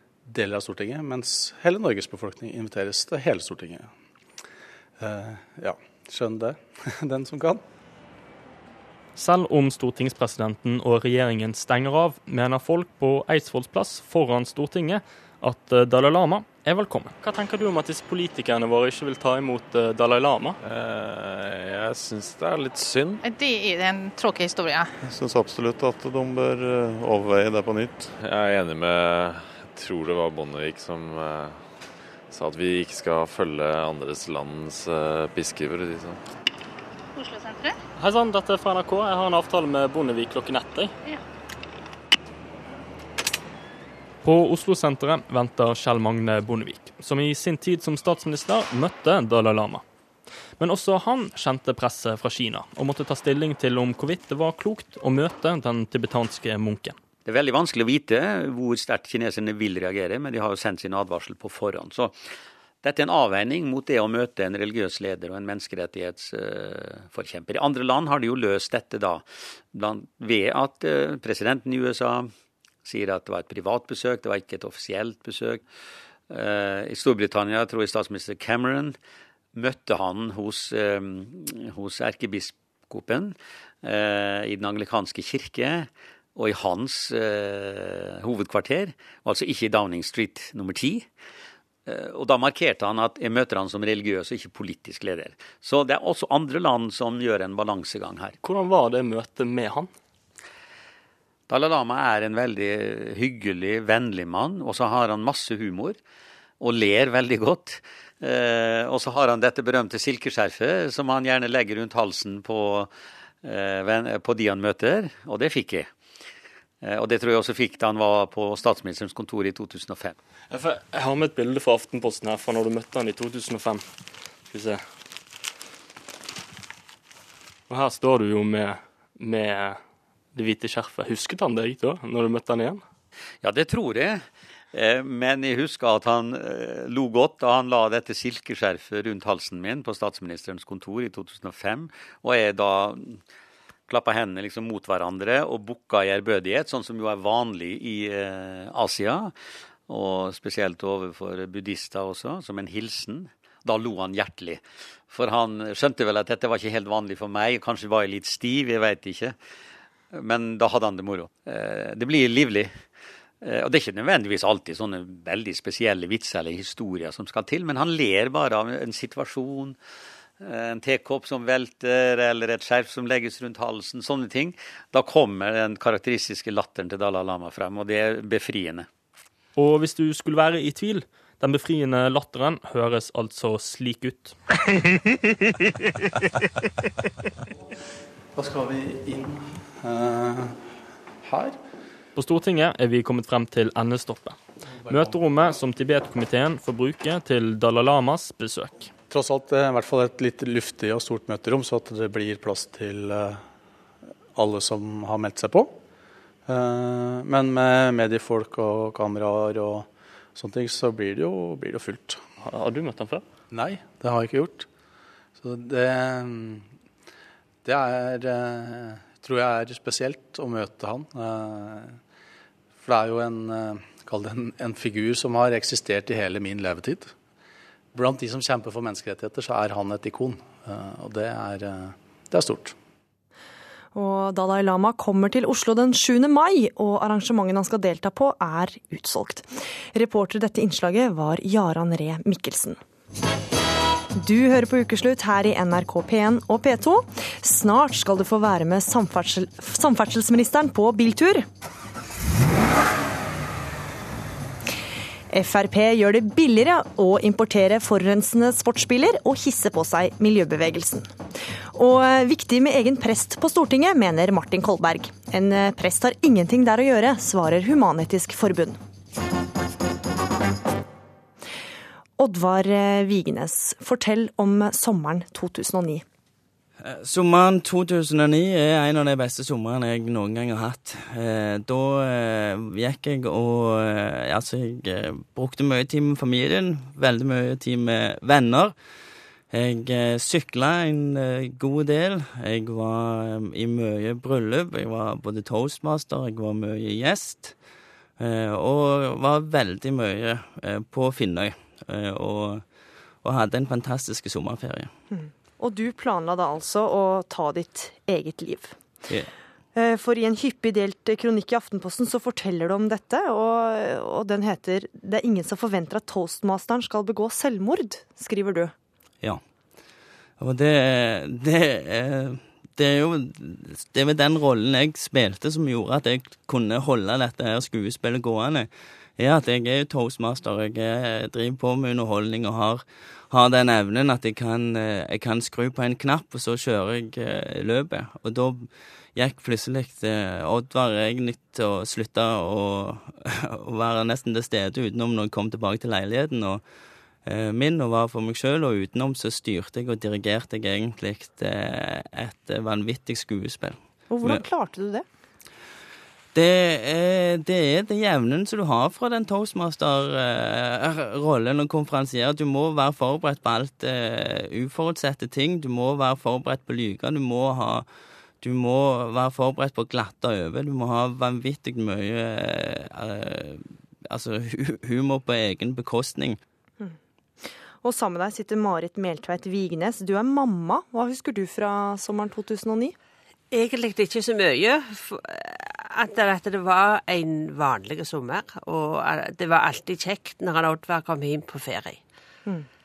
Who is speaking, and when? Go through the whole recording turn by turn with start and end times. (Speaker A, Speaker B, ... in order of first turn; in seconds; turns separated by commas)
Speaker A: 0.3-3.9, Speaker A: 5.0-7.6, Speaker B: 9.2-20.6, Speaker C: 20.6-23.2, Speaker D: 23.2-24.9, Speaker C: 25.3-31.6, Speaker C: 32.3-36.2, Speaker D: 37.2-37.8, Speaker B: 38.0-40.9, Speaker B: 44.2-49.8, Speaker B: 50.6-57.0, Speaker E: 57.3-62.2, Speaker E: 62.8-72.3, Speaker E: 72.9-75.6, Speaker E: 76.3-79.0, Speaker E: 79.5-91.1, Speaker E: 91.9-98.3, Speaker B: 98.4-99.9, Speaker E: 101.5-106.0, Speaker E: 106.6-112.9, Speaker E: 113.4-115.9, Speaker E: 116.8-120.2, Speaker B: 120.5-123.8, Speaker B: 124.5-124.8, Speaker B: 127.7-129.8, Speaker B: 130.3-132.8, Speaker E: 133.4-143.2, Speaker E: 143.9-149.3, Speaker E: 149.9-159.4, Speaker E: 160.1-162.8, Speaker E: 163.4-169.8, Speaker E: 170.4-178.9, Speaker B: 179.6-184.4, Speaker A: 188.4-190.6, Speaker A: 191.2-191.6, Speaker B: 192.2-198.9, Speaker A: 194.9-195.1, Speaker A: 199.1-203.4, Speaker A: 204.3-205.8, Speaker A: 206.5-212.2, Speaker B: 212.4-213.2, Speaker A: 213.5-214.7, Speaker A: 215.4-216.7, Speaker A: 217.6-222.0, Speaker A: 222.8-227.1, Speaker A: 227.9-232.8, Speaker F: 233.9-242.8, Speaker F: 244.2-251.4, Speaker F: 255.3-261.1, Speaker F: 261.7-268.8, Speaker F: 272.2-276.0, Speaker G: 276.9-288.8, Speaker G: 289.5-297.6, Speaker G: 298.2-302.6, Speaker G: 303.2-304.9, Speaker F: 305.1-308.8, Speaker F: 309.8-318.7, Speaker G: 320.4-346.6, Speaker G: 347.2-354.4, Speaker F: 354.1-355.1, Speaker G: 356.3-367.9, Speaker G: 368.4-376.4, Speaker F: 376.8-382.9, Speaker H: 383.5-392.0